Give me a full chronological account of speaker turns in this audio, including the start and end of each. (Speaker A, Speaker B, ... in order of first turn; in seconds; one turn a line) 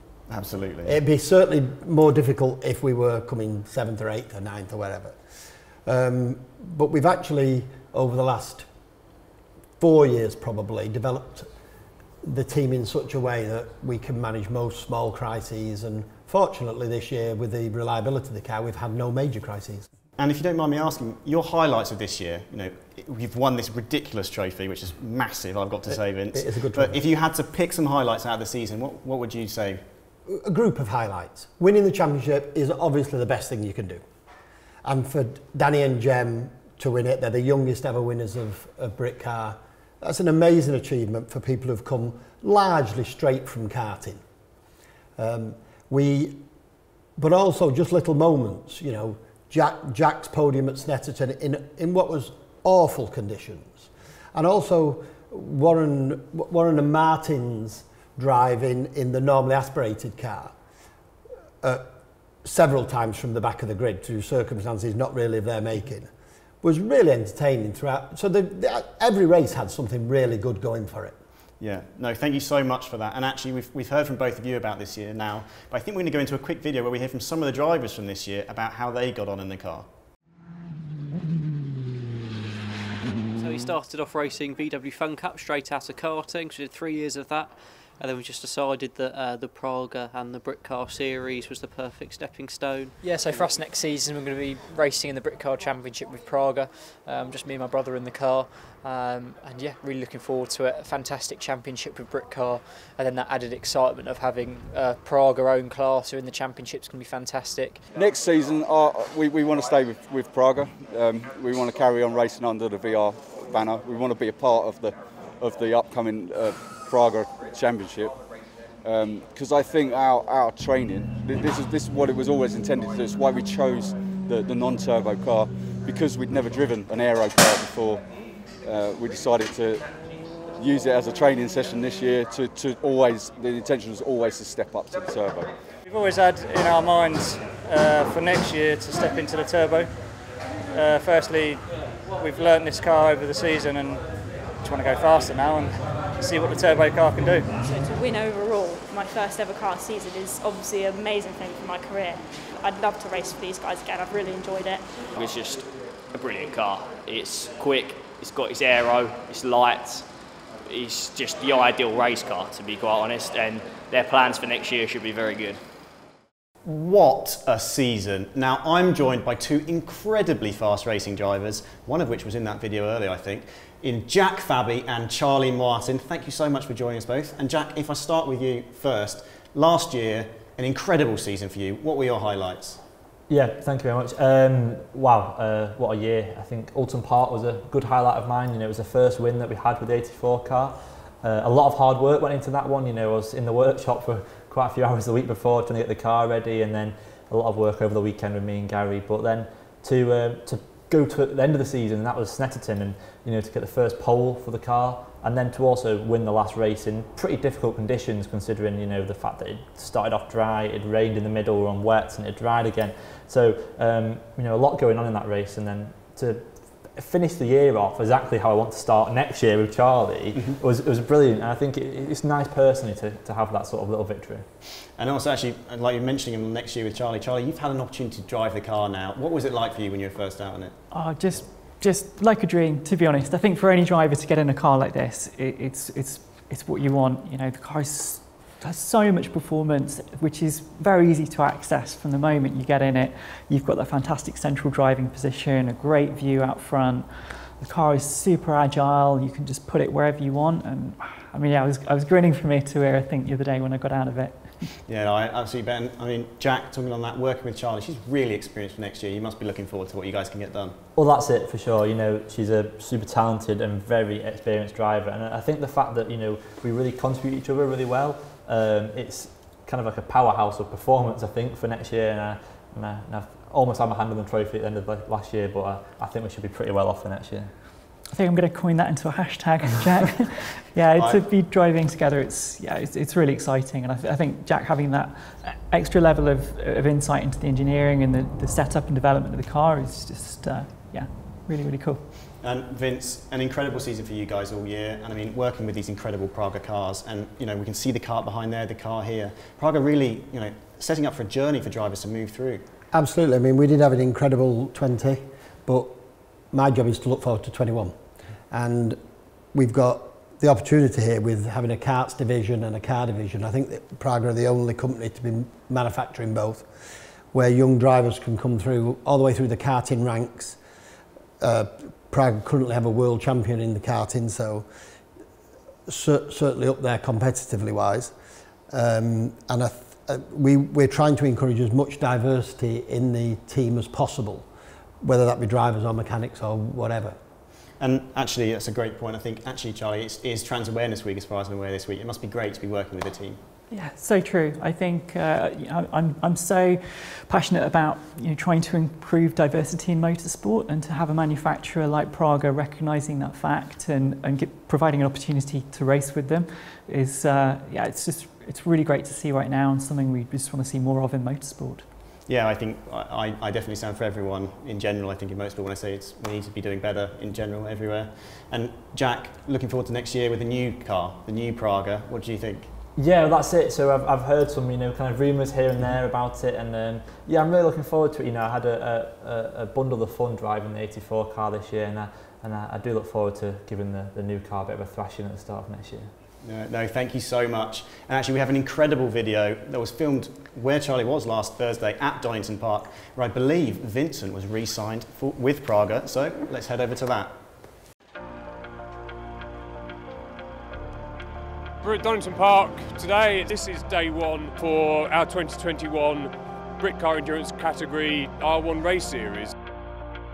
Speaker A: 0.3-0.9
Speaker B: 0.8-5.2
Speaker B: 5.8-8.7
Speaker B: 9.8-11.5
Speaker B: 12.2-19.9
Speaker A: 20.2-29.8
Speaker B: 26.3-27.0
Speaker B: 30.3-34.0
Speaker B: 34.8-44.2
Speaker B: 45.2-46.4
Speaker B: 47.2-60.5
Speaker B: 61.6-61.9
Speaker B: 62.4-66.1
Speaker B: 66.6-71.2
Speaker A: 71.6-79.9
Speaker C: 83.3-92.9
Speaker D: 93.0-107.8
Speaker E: 107.9-118.2
Speaker E: 118.8-128.1
Speaker E: 128.6-129.9
Speaker E: 130.5-135.5
Speaker F: 135.8-139.9
Speaker F: 140.7-147.5
Speaker G: 147.6-154.8
Speaker H: 155.1-160.1
Speaker H: 160.7-165.6
Speaker A: 166.6-182.8
Speaker I: 183.3-224.4
Speaker A: 220.3-220.6
Speaker A: 225.0-230.8
Speaker J: 230.9-254.7
Speaker A: 254.8-260.8
Speaker I: 260.9-277.5
Speaker J: 278.1-292.0
Speaker A: 280.9-281.2
Speaker A: 292.4-302.6
Speaker B: 302.9-306.0
Speaker B: 306.5-307.9
Speaker B: 308.5-309.0
Speaker B: 309.5-316.7
Speaker B: 317.3-320.6
Speaker B: 321.4-324.7
Speaker B: 325.9-328.1
Speaker B: 328.7-334.5
Speaker B: 335.0-337.2
Speaker A: 337.8-343.4
Speaker J: 343.7-361.8
Speaker A: 362.3-372.7
Speaker I: 373.0-386.1
Speaker A: 386.4-397.4
Speaker K: 401.8-409.5